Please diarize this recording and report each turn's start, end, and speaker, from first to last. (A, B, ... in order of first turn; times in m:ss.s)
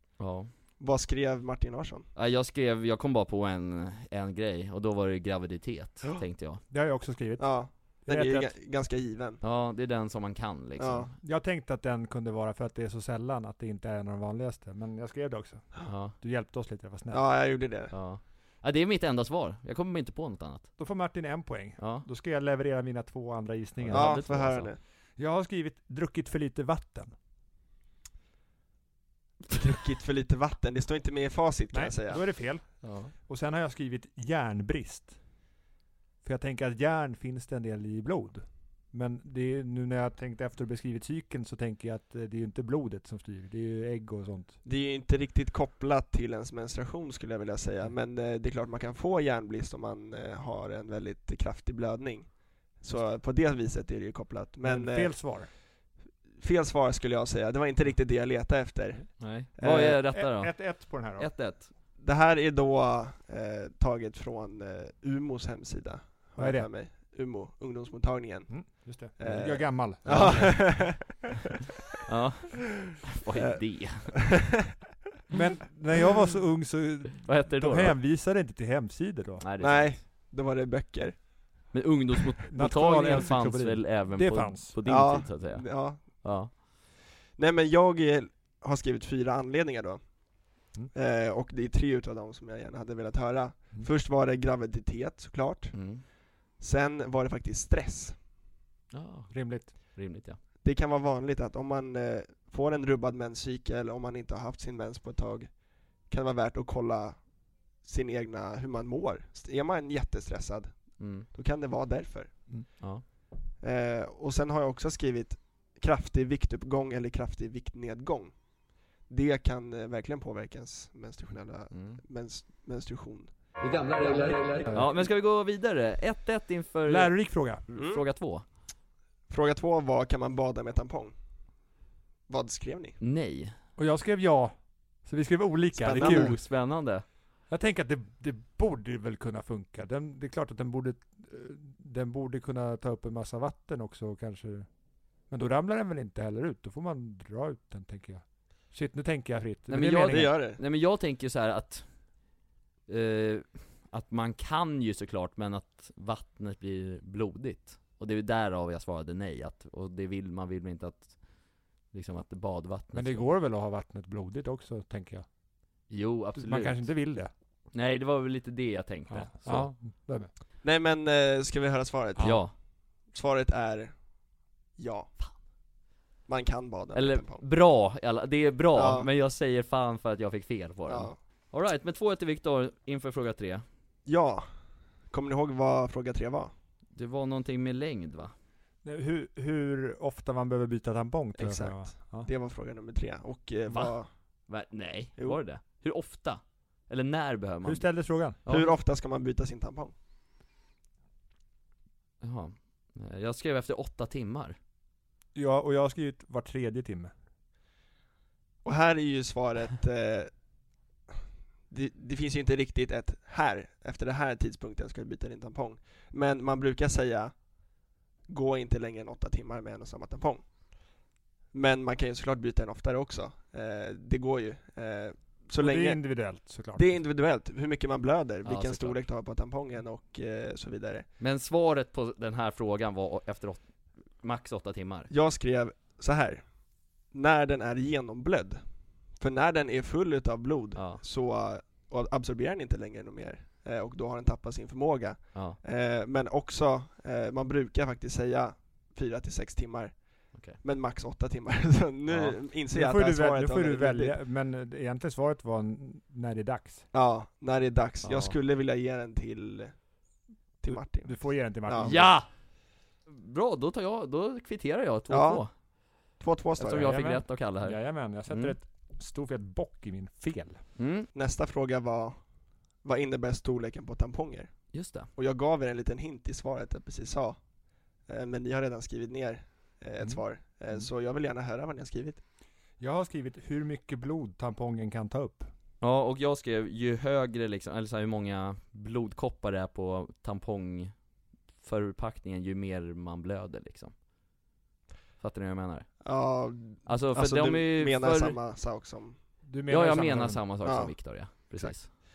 0:00.2-0:00.5 A
0:00.8-0:02.0 B
0:02.2-0:06.6 A
0:06.7-0:08.5 C
0:07.4-0:09.4 B
0:09.4-0:11.1 A
0:10.8-0:11.1 B
0:11.2-0:17.2 C
0:15.9-0:16.1 A
0:17.1-0:17.9 B
0:17.9-0:20.7 A
0:20.8-0:24.2 C
0:21.8-0:22.0 A
0:23.8-0:24.7 A
0:23.9-0:24.8 B
0:25.2-0:27.1 C
0:29.5-0:32.2 B
0:31.7-0:35.2 C
0:32.8-0:33.1 A
0:36.2-0:44.6 C
0:44.6-0:55.4 B
0:54.6-0:55.5 C
0:56.4-1:00.0 B
0:59.2-1:01.7 A
1:00.0-1:01.3 C
1:02.0-1:11.2 B
1:06.4-1:06.7 C
1:08.5-1:11.1 C
1:10.0-1:10.8 A
1:12.0-1:14.4 A
1:13.4-1:14.6 B
1:15.3-1:19.4 C
1:17.2-1:18.0 A
1:19.4-1:20.0 A
1:19.6-1:21.7 B
1:21.7-1:26.5 A
1:22.5-1:24.8 C
1:24.8-1:26.6 B
1:27.3-1:30.2 B
1:30.9-1:35.8 B
1:35.7-1:36.0 A
1:36.6-1:38.2 B
1:38.9-1:40.4 A
1:39.3-1:39.7 C
1:40.6-1:47.3 B
1:47.8-1:52.7 B
1:51.0-1:51.3 A
1:52.8-1:53.0 A
1:53.6-1:58.4 B
1:59.0-2:03.3 B
2:01.7-2:02.0 A
2:04.7-2:08.4 A
2:06.9-2:07.6 C
2:07.8-2:08.0 B
2:09.3-2:11.1 B
2:12.3-2:13.0 B
2:13.0-2:13.5 A
2:13.8-2:16.4 C
2:15.7-2:16.4 B
2:15.9-2:17.0 A
2:17.5-2:24.7 C
2:25.3-2:30.3 C
2:29.7-2:31.9 A
2:30.1-2:30.6 B
2:32.9-2:43.2 A
2:42.9-2:45.3 C
2:45.9-2:46.9 A
2:46.4-2:47.3 C
2:47.7-2:49.7 A
2:49.1-2:50.3 C
2:50.6-2:54.0 B
2:52.2-2:52.5 A
2:54.8-2:55.1 B
2:56.3-2:57.4 B
2:56.9-3:03.6 A
2:58.7-2:59.1 B
3:00.9-3:01.2 B
3:04.0-3:04.4 B
3:05.1-3:06.5 B
3:06.9-3:08.3 A
3:08.8-3:12.3 C
3:11.4-3:14.1 B
3:13.7-3:13.9 A
3:14.5-3:17.9 A
3:17.6-3:18.4 C
3:18.4-3:18.8 A
3:18.5-3:19.9 B
3:22.2-3:24.6 A
3:25.3-3:27.1 C
3:28.6-3:30.3 B
3:31.7-3:37.4 B
3:38.3-3:40.4 B
3:41.5-3:51.1 B
3:45.6-3:47.0 C
3:48.4-3:49.0 A
3:51.2-3:53.7 A
3:54.2-3:55.1 A
3:55.1-3:56.5 B
3:57.0-3:58.6 B
3:59.2-4:14.2 B
4:00.8-4:01.0 A
4:10.3-4:10.6 A
4:12.1-4:12.4 A
4:12.7-4:16.8 C
4:16.9-4:19.9 B
4:18.0-4:18.3 A
4:20.6-4:22.0 B
4:20.7-4:22.2 C
4:21.8-4:22.3 A
4:23.0-4:25.5 A
4:25.1-4:25.4 B
4:26.2-4:27.0 B
4:26.6-4:28.5 A
4:26.8-4:30.6 C
4:30.8-4:31.1 A
4:31.1-4:32.2 B
4:32.8-4:37.4 B
4:34.7-4:35.1 A
4:38.1-4:42.2 B
4:42.8-4:45.5 C
4:45.8-4:50.9 A
4:51.6-4:53.9 A
4:55.2-4:56.0 A
4:56.0-4:59.2 B
4:56.8-4:58.4 A
4:59.4-5:00.4 C
4:59.7-5:01.9 A
5:00.6-5:02.0 B